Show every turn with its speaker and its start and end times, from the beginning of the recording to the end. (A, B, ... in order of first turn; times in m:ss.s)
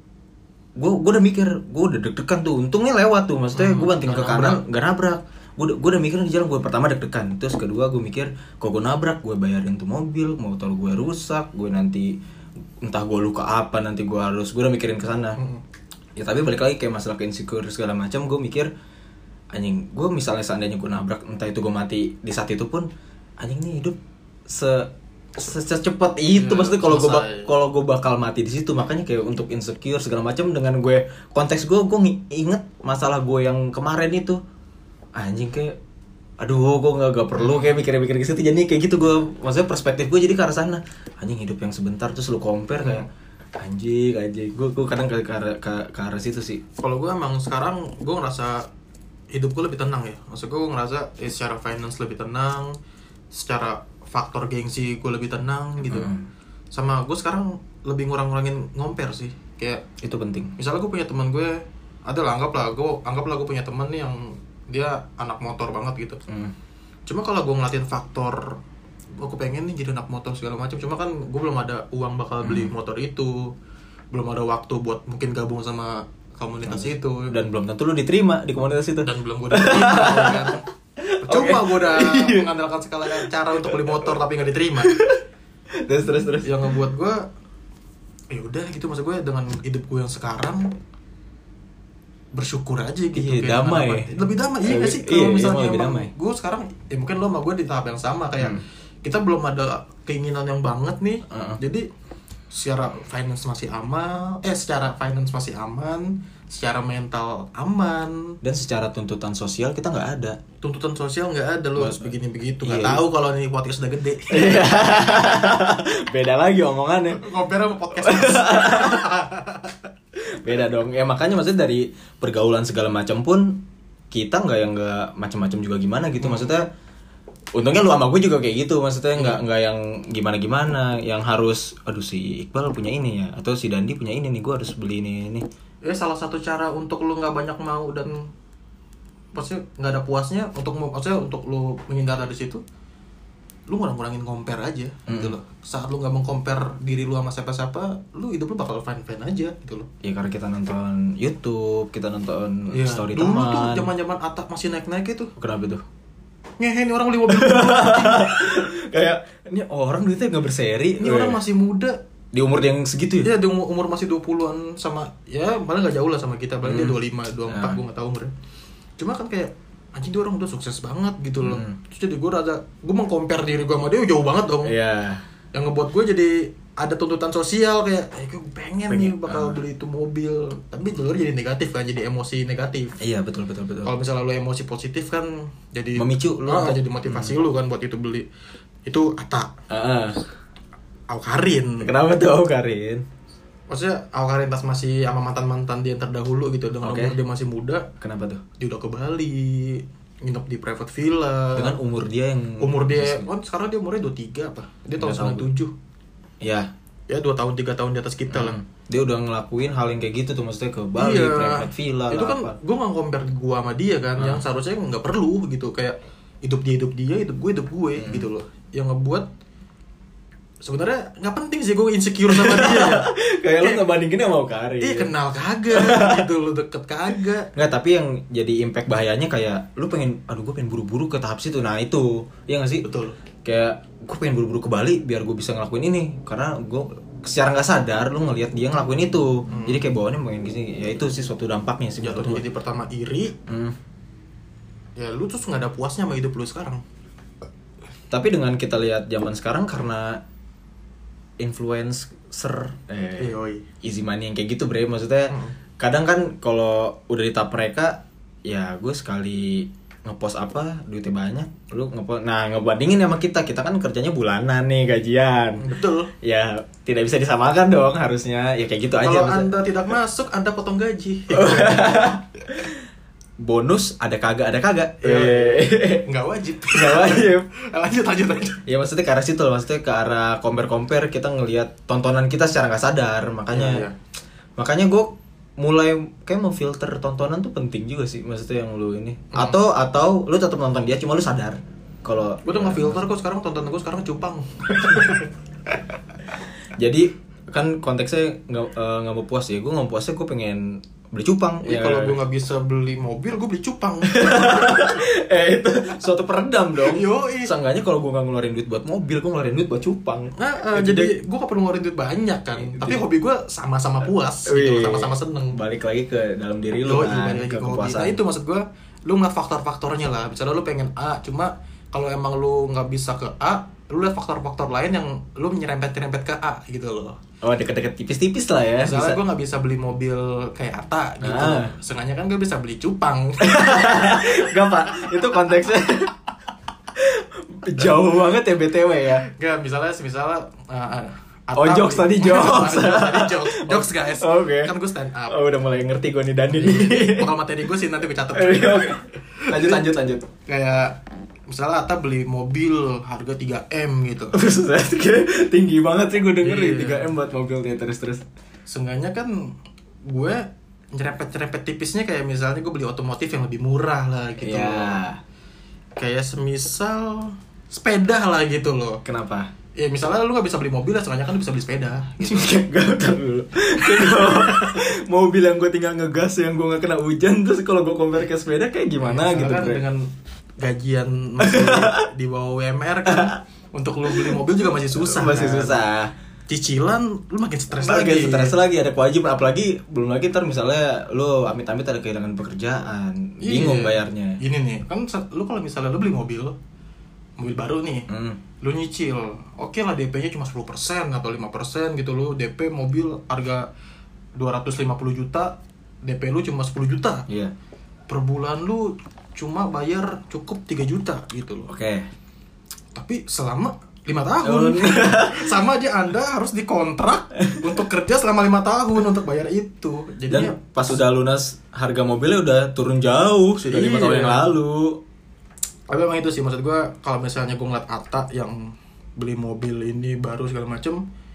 0:00.8-0:12.2 A
0:03.5-0:04.6 B
0:12.8-0:15.4 A
0:16.2-0:18.7 A
0:19.5-0:22.9 A
0:23.4-0:34.4 A
0:26.3-0:27.5 B
0:35.2-0:35.8 A
0:36.4-0:43.1 A
0:37.4-0:37.7 B
0:42.8-0:43.1 B
0:43.6-0:46.6 A
0:46.8-0:48.7 B
0:49.3-0:52.7 B
0:53.3-0:56.1 B
0:55.8-0:56.3 A
0:56.7-0:59.8 B
1:00.0-1:00.5 A
1:00.6-1:06.2 B
1:06.3-1:06.5 A
1:07.1-1:08.6 B
1:09.2-1:13.5 B
1:12.4-1:12.7 A
1:14.1-1:17.3 B
1:16.7-1:22.5 A
1:19.0-1:20.6 B
1:21.2-1:24.9 B
1:23.1-1:24.1 A
1:24.8-1:25.2 A
1:25.8-1:26.7 A
1:26.4-1:27.2 B
1:28.3-1:30.7 B
1:32.3-1:41.9 B
1:33.1-1:34.1 A
1:34.6-1:36.1 A
1:41.3-1:41.6 A
1:42.5-1:48.4 B
1:48.4-1:50.4 A
1:50.6-1:54.9 B
1:51.8-1:52.1 A
1:52.6-1:53.0 A
1:54.3-1:57.3 A
1:57.1-1:59.8 B
1:57.9-1:59.1 A
2:00.2-2:06.7 A
2:06.2-2:06.5 B
2:07.6-2:15.4 A
2:15.8-2:18.3 B
2:19.3-2:22.6 B
2:23.7-2:29.9 B
2:25.1-2:25.3 A
2:30.0-2:33.9 A
2:32.7-2:35.3 B
2:35.4-2:35.8 A
2:36.6-2:38.4 B
2:37.3-2:41.4 A
2:41.0-2:42.0 B
2:42.3-2:43.3 A
2:43.2-2:48.3 B
2:46.6-2:47.8 A
2:49.0-2:54.7 B
2:51.4-2:51.8 A
2:54.6-2:55.2 A
2:55.5-3:03.0 B
2:58.9-2:59.6 A
3:03.0-3:03.9 A
3:03.8-3:08.2 B
3:06.0-3:07.4 A
3:08.8-3:09.5 B
3:09.7-3:10.2 A
3:11.1-3:11.9 B
3:11.8-3:13.0 A
3:13.7-3:17.9 B
3:16.8-3:17.2 A
3:18.0-3:18.4 A
3:18.6-3:21.7 B
3:21.6-3:23.3 A
3:22.6-3:25.7 B
3:25.0-3:25.5 A
3:26.4-3:26.7 A
3:27.1-3:28.6 B
3:28.3-3:32.5 A
3:31.0-3:39.3 B
3:34.2-3:34.4 A
3:38.0-3:38.3 A
3:40.6-3:43.8 B
3:42.3-3:45.1 A
3:44.8-3:47.5 B
3:45.7-3:46.3 A
3:47.5-3:52.9 A
3:52.8-3:53.2 B
3:53.4-4:02.4 A
3:59.5-3:59.8 B
4:02.0-4:03.4 B
4:03.5-4:03.8 A
4:05.0-4:06.8 B
4:08.1-4:10.2 A
4:11.4-4:29.5 A
4:13.2-4:13.6 B
4:15.3-4:15.5 B
4:25.6-4:26.1 B
4:29.0-4:32.2 B
4:31.3-4:32.8 A
4:33.4-4:36.0 A
4:35.0-4:38.6 B
4:36.7-4:37.5 A
4:38.6-4:43.8 A
4:43.5-4:43.9 B
4:44.6-4:53.0 A
4:49.3-4:49.6 B
4:52.4-4:55.3 B
4:56.7-5:02.2 A
5:01.6-5:05.0 B
5:04.0-5:11.1 A
5:06.8-5:07.5 B
5:10.4-5:15.6 B
5:12.6-5:13.0 A
5:14.5-5:18.2 A
5:16.8-5:27.2 B
5:27.4-5:29.2 A
5:28.8-5:34.4 B
5:31.2-5:31.7 A
5:33.4-5:36.1 A
5:36.9-5:39.2 A
5:39.2-5:45.4 B
5:41.6-5:44.7 A
5:45.3-5:47.3 A
5:46.5-5:49.9 B
5:48.3-5:50.3 A
5:50.4-5:54.4 B
5:54.3-5:58.2 A
5:56.4-5:57.0 B
5:58.7-5:59.5 B
6:00.0-6:05.0 B
6:04.4-6:05.2 A
6:06.0-6:09.0 B
6:09.0-6:09.5 A
6:09.8-6:12.5 B
6:12.2-6:19.8 A
6:13.8-6:14.8 B
6:19.0-6:20.1 B
6:20.6-6:25.8 B
6:21.4-6:22.0 A
6:23.1-6:23.4 A
6:24.1-6:26.1 A
6:26.5-6:28.6 B
6:27.7-6:34.4 A
6:33.4-6:36.6 B
6:37.4-6:38.1 B
6:38.1-6:38.4 A
6:38.6-6:43.7 B
6:44.4-6:47.3 B
6:47.3-6:47.5 A
6:48.1-6:51.7 B
6:51.7-6:52.1 A
6:52.9-7:00.6 B
6:54.4-6:55.5 A
7:00.3-7:05.0 A
7:03.6-7:04.5 B
7:05.9-7:11.0 B